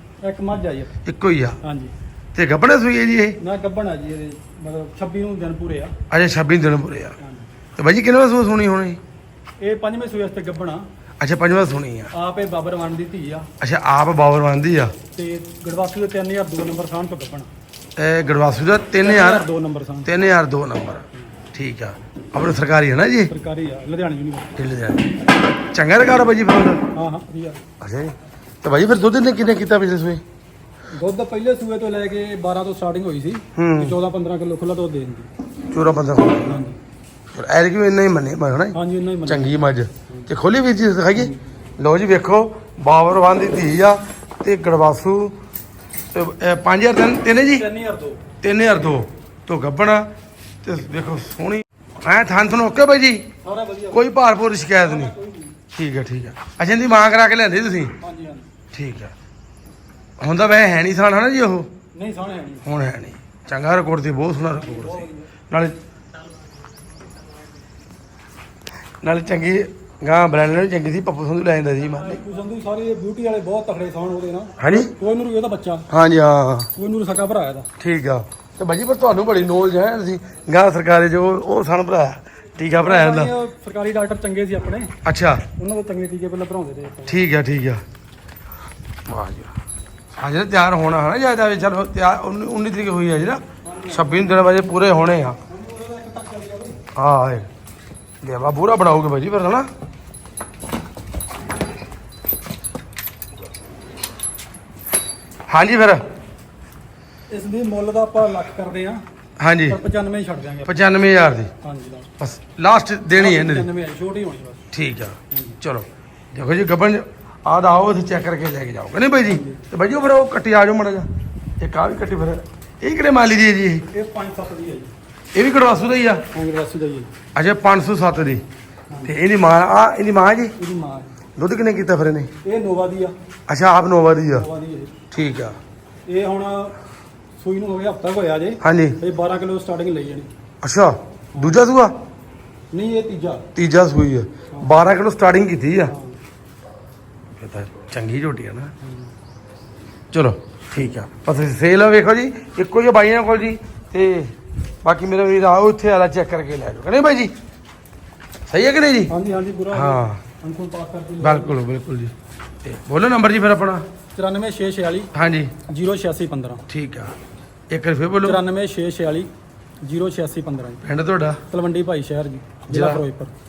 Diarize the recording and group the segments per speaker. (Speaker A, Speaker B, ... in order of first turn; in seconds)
Speaker A: 0.2-0.9, 1.6-1.9, 3.4-5.9, 7.2-7.5, 9.6-10.8, 12.1-13.5, 15.1-17.5, 19.0-20.1, 23.3-24.6, 26.9-27.6, 30.9-35.3, 36.4-36.8, 38.7-39.6, 47.5-48.2, 53.4-54.0, 54.8-55.5, 58.0-58.5, 61.9-62.7, 64.5-65.3, 72.0-75.9, 76.8-77.7, 82.8-84.9, 85.5-87.2, 93.6-94.5, 95.5-96.8, 107.3-109.0, 109.7-110.9, 111.6-112.1, 113.2-114.6, 115.3-115.6, 119.2-119.6, 123.9-124.9, 126.3-127.1, 130.6-131.1, 132.4-133.1, 134.3-134.9, 136.1-136.7, 137.4-140.3, 141.3-141.6, 142.7-143.5, 145.9-146.2, 159.1-161.6, 164.1-165.1, 165.7-166.6, 168.2-169.3, 169.8-170.8, 171.5-173.3
Speaker B: 1.0-1.6, 2.3-3.4, 6.1-7.2, 7.8-9.0, 11.2-12.1, 13.6-15.0, 18.0-19.4, 20.0-23.3, 24.6-25.1, 25.7-26.8, 27.8-30.2, 33.5-34.0, 35.7-36.6, 37.3-45.3, 46.1-47.6, 48.4-50.1, 50.6-53.2, 53.9-55.1, 55.7-57.9, 58.7-59.1, 60.2-61.7, 62.6-65.7, 69.0-72.2, 74.6-74.9, 75.9-76.7, 77.8-83.3, 85.0-85.5, 87.1-87.8, 89.1-89.5, 90.1-95.4, 96.9-97.5, 98.2-99.7, 105.5-106.0, 109.4-109.8, 110.6-111.5, 112.2-113.7, 114.7-121.1, 121.6-123.8, 125.3-126.2, 127.3-128.4, 129.0-130.5, 131.4-132.3, 133.5-134.4, 135.1-135.6, 138.6-139.0, 140.6-141.9, 143.5-145.9, 147.3-148.7, 150.1-157.3, 158.5-159.1, 159.7-160.2, 161.2-162.1, 162.6-163.8, 165.1-165.5, 166.7-167.1, 167.7-168.4, 170.8-171.4, 172.7-173.0